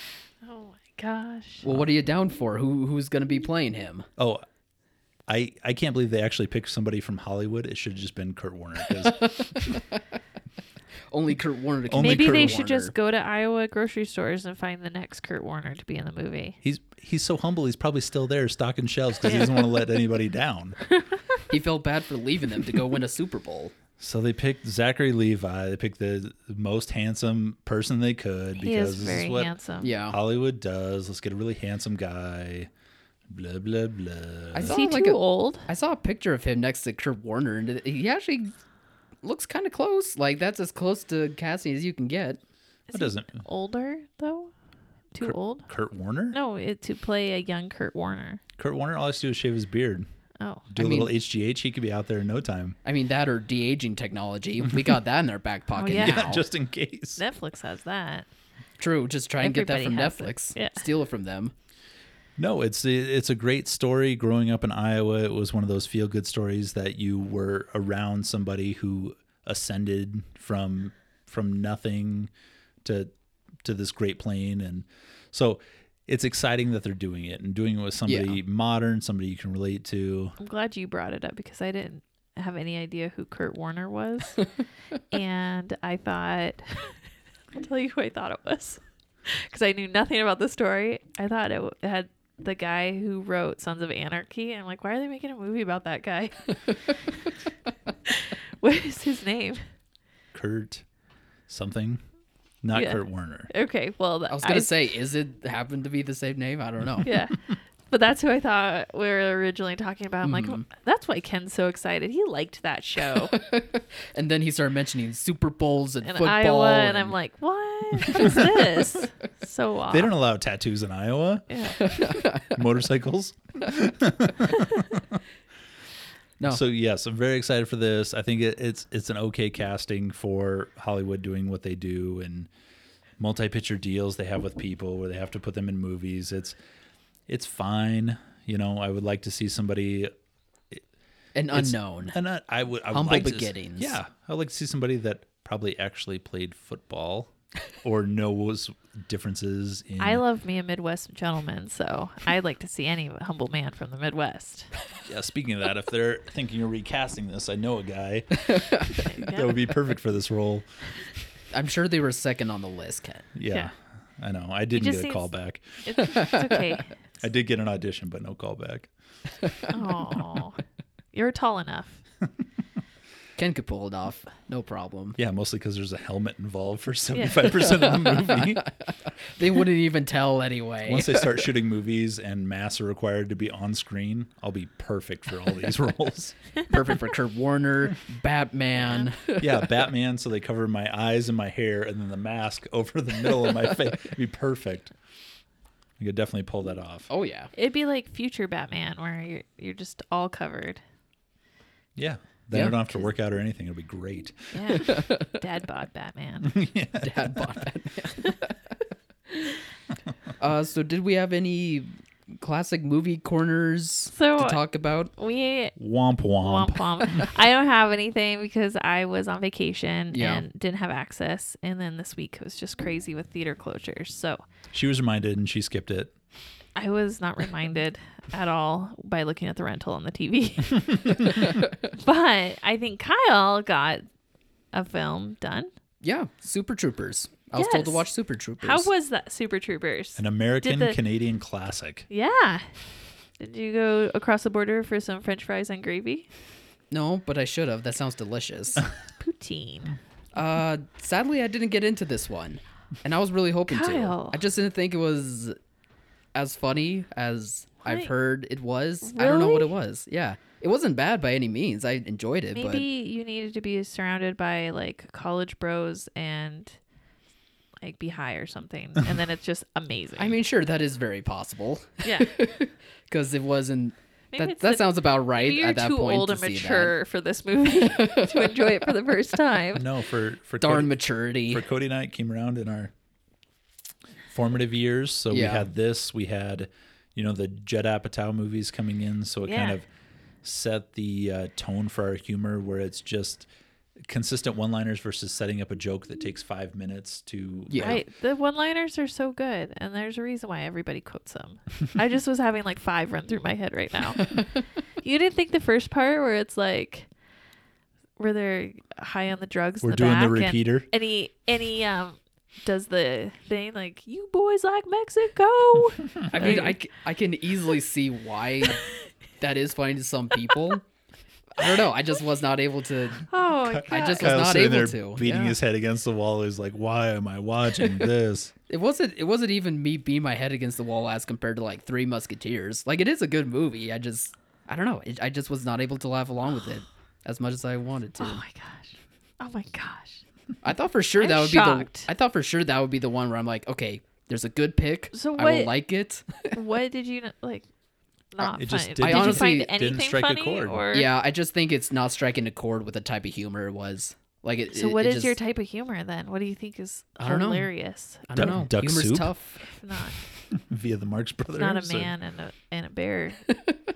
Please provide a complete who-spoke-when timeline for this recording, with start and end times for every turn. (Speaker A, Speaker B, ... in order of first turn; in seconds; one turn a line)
Speaker A: 0.4-1.6
Speaker B: 1.6-4.1
Speaker C: 4.2-4.4
Speaker C: 5.3-9.8
Speaker B: 9.0-10.0
Speaker B: 11.1-12.9
Speaker C: 11.9-12.6
Speaker A: 12.0-16.6
Speaker C: 16.6-20.8
Speaker A: 19.3-19.7
Speaker A: 20.9-21.4
Speaker B: 21.5-23.7
Speaker C: 24.0-29.5
Speaker A: 28.6-29.9
Speaker B: 29.8-30.2
Speaker C: 30.1-32.7
Speaker C: 33.3-34.8
Speaker B: 34.5-38.5
Speaker A: 34.6-35.7
Speaker B: 39.2-42.4
Speaker A: 42.9-44.5
Speaker C: 42.9-43.4
Speaker A: 45.1-45.6
Speaker C: 45.2-46.4
Speaker A: 46.3-48.4
Speaker C: 48.6-50.1
Speaker A: 50.4-50.7
Speaker C: 50.7-52.8
Speaker B: 50.8-51.1
Speaker B: 52.8-56.4
Speaker A: 55.7-56.3
Speaker C: 55.9-57.2
Speaker A: 57.2-58.2
Speaker B: 58.8-61.5
Speaker A: 59.4-60.8
Speaker C: 62.4-72.3
Speaker C: 72.8-73.1
Speaker C: 73.6-80.4
Speaker B: 78.1-78.4
Speaker A: 80.4-84.5
Speaker A: 85.1-87.0
Speaker A: 87.5-96.9
Speaker A: 98.1-99.6
Speaker C: 100.3-100.8
Speaker C: 101.5-102.0
Speaker C: 102.6-103.5
Speaker A: 102.7-104.7
Speaker B: 104.3-107.1
Speaker A: 107.0-113.4
Speaker B: 110.2-110.6
Speaker B: 113.3-117.1
Speaker A: 116.0-120.1
Speaker B: 118.1-118.9
Speaker C: 119.9-125.2
Speaker A: 121.5-121.9
Speaker B: 121.8-122.6
Speaker C: 126.5-132.5
Speaker C: 133.2-136.6
Speaker C: 137.3-140.1
Speaker B: 141.3-142.2
Speaker C: 141.5-150.2
Speaker B: 142.9-144.0
Speaker A: 150.0-154.7
Speaker C: 155.0-160.7
Speaker B: 158.5-159.0
Speaker A: 159.0-159.6
Speaker B: 161.5-163.3
Speaker C: 163.3-165.8
Speaker A: 164.7-165.3
Speaker A: 165.8-167.0
Speaker B: 166.0-166.6
Speaker C: 167.2-168.9
Speaker B: 169.4-169.7
Speaker A: 169.7-170.6
Speaker A: 171.1-172.0
Speaker B: 173.4-175.2
Speaker C: 175.2-178.7
Speaker A: 177.1-177.4
Speaker B: 177.7-181.5
Speaker C: 180.8-186.3
Speaker B: 186.7-189.8
Speaker C: 189.4-194.9
Speaker C: 196.0-197.1
Speaker B: 197.1-197.5
Speaker A: 197.5-200.8
Speaker C: 201.9-204.8
Speaker B: 202.5-202.8
Speaker A: 204.5-206.6
Speaker B: 204.8-205.3
Speaker C: 206.4-207.5
Speaker B: 207.0-208.6
Speaker B: 210.4-215.1
Speaker A: 214.1-214.6
Speaker A: 215.2-215.8
Speaker C: 215.8-217.3
Speaker A: 216.4-224.4
Speaker B: 220.1-220.4
Speaker C: 224.7-226.1
Speaker A: 226.8-234.1
Speaker A: 234.7-235.7
Speaker B: 236.0-238.9
Speaker A: 237.5-238.1
Speaker A: 238.6-241.0
Speaker C: 240.2-242.1
Speaker A: 242.1-242.7
Speaker A: 243.4-246.3
Speaker B: 246.9-248.8
Speaker A: 249.2-250.0
Speaker B: 250.3-255.6
Speaker A: 253.7-254.4
Speaker B: 256.3-262.9
Speaker A: 257.8-258.1
Speaker A: 259.0-259.7
Speaker A: 262.5-266.8
Speaker A: 267.8-270.4
Speaker B: 270.2-276.9
Speaker A: 272.0-272.3
Speaker A: 274.3-279.9
Speaker B: 277.7-278.9
Speaker C: 279.7-280.9
Speaker B: 280.6-281.6
Speaker C: 281.5-282.9
Speaker C: 284.3-289.9
Speaker B: 285.3-285.7
Speaker A: 289.4-289.8
Speaker C: 290.4-293.5
Speaker C: 294.0-298.0
Speaker B: 297.7-298.0
Speaker A: 297.8-304.4
Speaker A: 305.0-307.1
Speaker A: 308.2-316.8
Speaker C: 309.8-310.9
Speaker B: 316.3-318.8
Speaker B: 319.4-320.8
Speaker B: 321.6-323.3
Speaker A: 323.3-324.4
Speaker C: 323.7-328.5
Speaker B: 323.9-325.6
Speaker B: 328.7-338.4
Speaker A: 338.2-340.2
Speaker B: 340.6-346.6
Speaker A: 341.2-342.1
Speaker A: 345.1-345.7
Speaker A: 346.5-347.6
Speaker A: 348.3-351.1
Speaker C: 348.5-350.9
Speaker B: 349.0-349.7
Speaker B: 350.9-355.3
Speaker A: 354.7-358.5
Speaker B: 357.2-357.7
Speaker B: 358.3-359.6
Speaker C: 358.4-359.3
Speaker A: 359.6-360.2
Speaker C: 360.5-362.1
Speaker A: 361.6-363.5